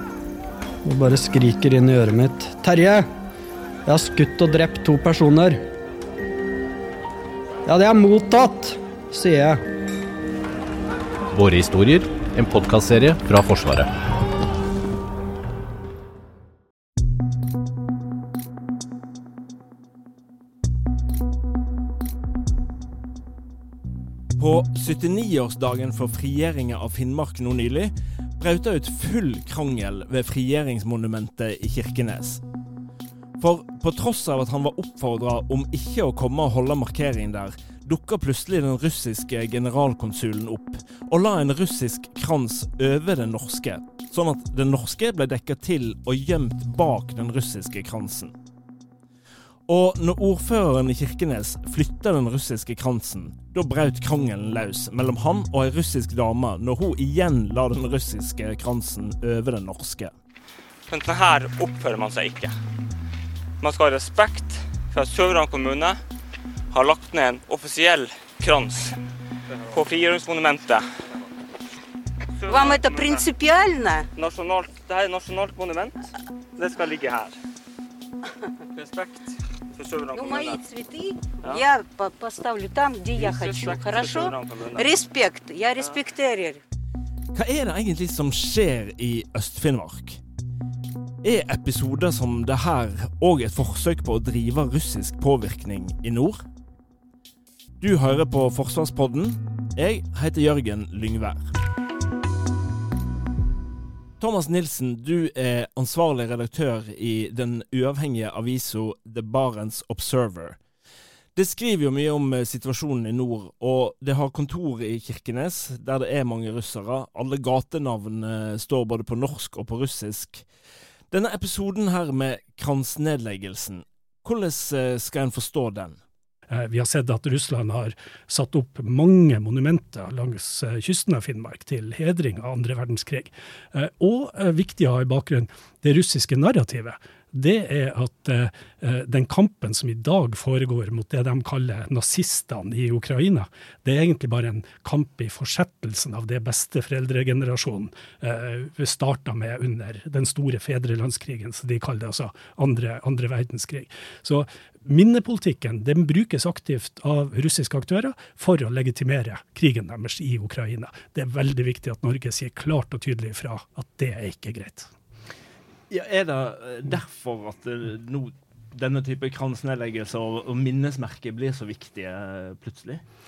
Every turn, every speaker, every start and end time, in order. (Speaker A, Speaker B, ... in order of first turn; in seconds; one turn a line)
Speaker A: 0.8-3.1
Speaker A: 3.9-5.6
Speaker A: 7.7-9.6
Speaker B: 11.3-13.9
Speaker C: 24.4-32.4
Speaker C: 33.4-48.4
Speaker C: 49.7-60.1
Speaker D: 60.9-62.5
Speaker D: 63.6-66.0
Speaker D: 66.7-69.0
Speaker D: 69.5-71.0
Speaker D: 72.4-73.3
Speaker E: 72.5-74.1
Speaker D: 74.1-77.3
Speaker D: 78.7-80.6
Speaker E: 80.1-86.6
Speaker D: 83.2-84.9
Speaker C: 87.3-90.2
Speaker C: 91.2-96.4
Speaker C: 97.8-101.5
Speaker C: 104.2-110.6
Speaker C: 111.3-120.5
Speaker C: 121.1-126.0
Speaker F: 126.5-164.9
Speaker C: 165.9-173.0